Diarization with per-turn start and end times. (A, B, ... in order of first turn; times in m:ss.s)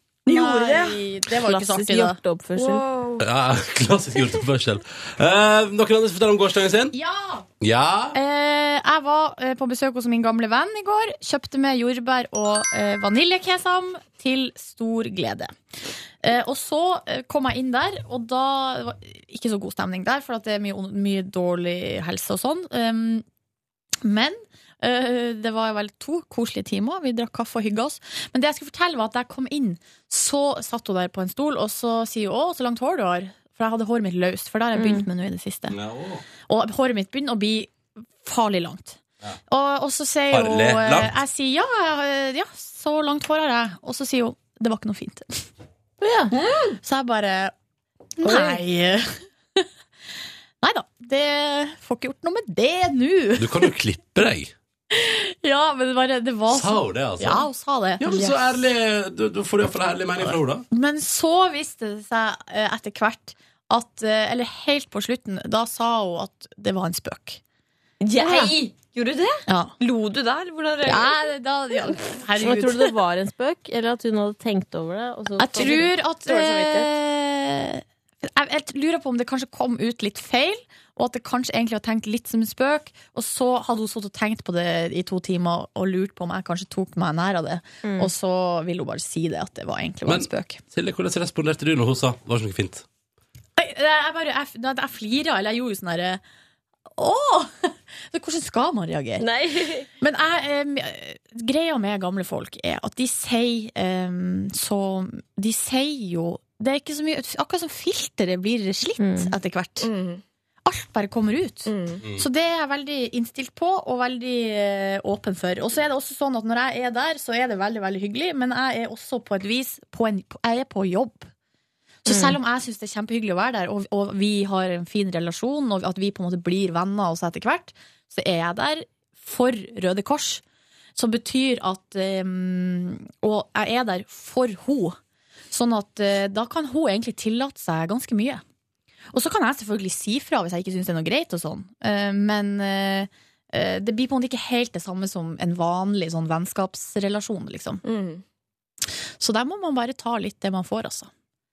0:00.3-0:02.2 A
0:00.3-0:01.0 B
0:01.4-0:02.8 C
0:02.6-0:03.3 B
0:03.2-0:07.0 D
0:06.9-0:07.5 A
0:07.6-0:08.2 D
0:08.1-0:15.5 A
0:16.2-0:23.2 A
0:24.0-0:35.8 A
0:34.8-0:35.0 C
0:35.7-0:36.2 D
0:36.5-0:45.4 A
0:40.3-0:41.1 D
0:46.0-0:46.4 C
0:46.4-0:46.7 B
0:46.8-0:47.5 A
0:48.2-0:49.7 A
0:48.3-0:48.6 B
0:50.6-0:53.7 A
0:53.4-0:54.5 D
0:54.9-0:58.4 A
0:56.5-0:57.5 D
0:58.0-1:00.6 D
1:00.7-1:07.4 A
1:08.0-1:11.2 B
1:08.2-1:08.5 C
1:09.5-1:09.7 A
1:10.9-1:12.9 A
1:12.4-1:15.9 C
1:15.4-1:30.6 A
1:15.6-1:16.9 B
1:27.8-1:28.1 C
1:30.1-1:32.8 D
1:33.6-1:36.2 A
1:37.0-1:39.2 A
1:39.2-1:39.9 B
1:40.0-1:49.9 A
1:49.0-1:49.3 C
1:49.8-1:50.2 B
1:50.7-2:01.3 A
1:51.7-1:52.0 B
2:02.1-2:10.4 A
2:02.1-2:02.4 C
2:11.0-2:15.0 A
2:15.5-2:18.4 A
2:19.1-2:27.8 A
2:27.8-2:28.2 B
2:29.2-2:31.1 A